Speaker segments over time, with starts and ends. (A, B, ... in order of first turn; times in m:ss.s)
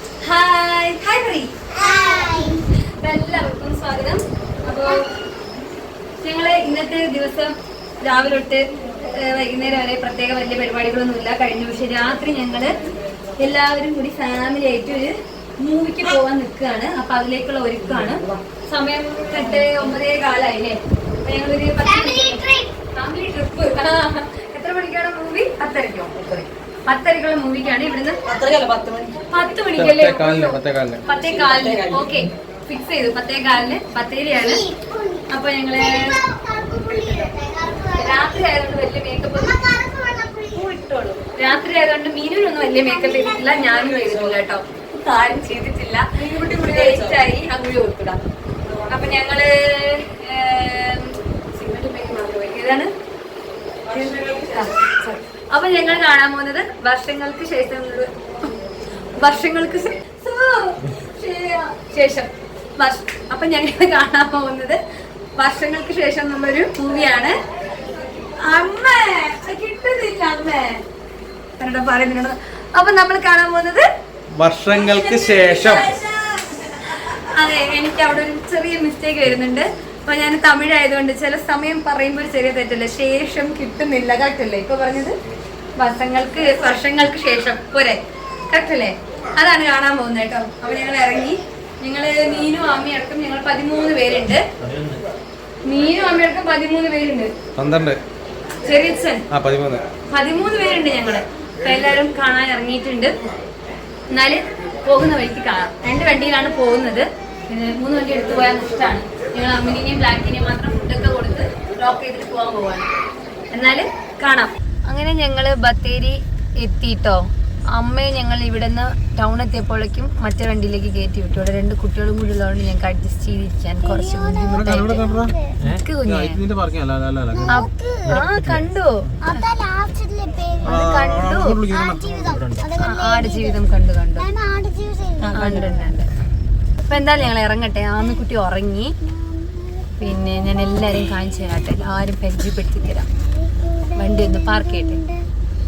0:00.2-0:01.5 A
0:01.7-0:02.6 B
0:02.1-0:02.5 A
0:03.0-0:05.0 A
0:06.2-0:12.8 A
0:13.4-0:28.2 A
0:18.0-0:18.4 C
0:21.8-0:22.7 B
0:28.3-0:29.2 C
0:29.3-0:34.6 A
0:29.8-0:31.0 D
0:31.2-0:32.1 C
0:34.3-0:38.4 B
0:35.3-0:36.2 A
0:38.0-0:39.8 A
0:39.4-0:40.8 B
0:40.6-0:48.2 A
0:42.6-0:43.6 B
0:43.6-0:44.4 C
0:46.2-0:47.2 C
0:48.9-0:52.9 A
0:53.9-0:54.8 C
0:53.9-0:58.5 A
0:59.1-1:04.8 A
1:05.4-1:07.4 A
1:08.4-1:10.8 A
1:11.6-1:13.9 A
1:14.3-1:16.0 D
1:14.7-1:25.2 A
1:25.8-1:34.4 A
1:35.7-1:37.3 A
1:37.6-1:38.0 D
1:38.7-1:39.2 A
1:39.3-1:39.8 D
1:40.1-1:43.2 A
1:44.1-1:52.9 A
1:53.5-2:05.0 A
2:03.8-2:05.6 B
2:04.5-2:07.5 D
2:05.6-2:06.4 A
2:07.3-2:08.3 B
2:07.5-2:09.4 A
2:09.2-2:13.6 B
2:10.6-2:11.6 A
2:10.7-2:12.0 D
2:12.8-2:14.3 A
2:14.2-2:15.7 B
2:15.2-2:15.6 C
2:15.3-2:16.1 A
2:16.9-2:19.0 A
2:19.0-2:21.0 B
2:20.0-2:23.1 A
2:23.1-2:25.2 B
2:24.0-2:25.0 A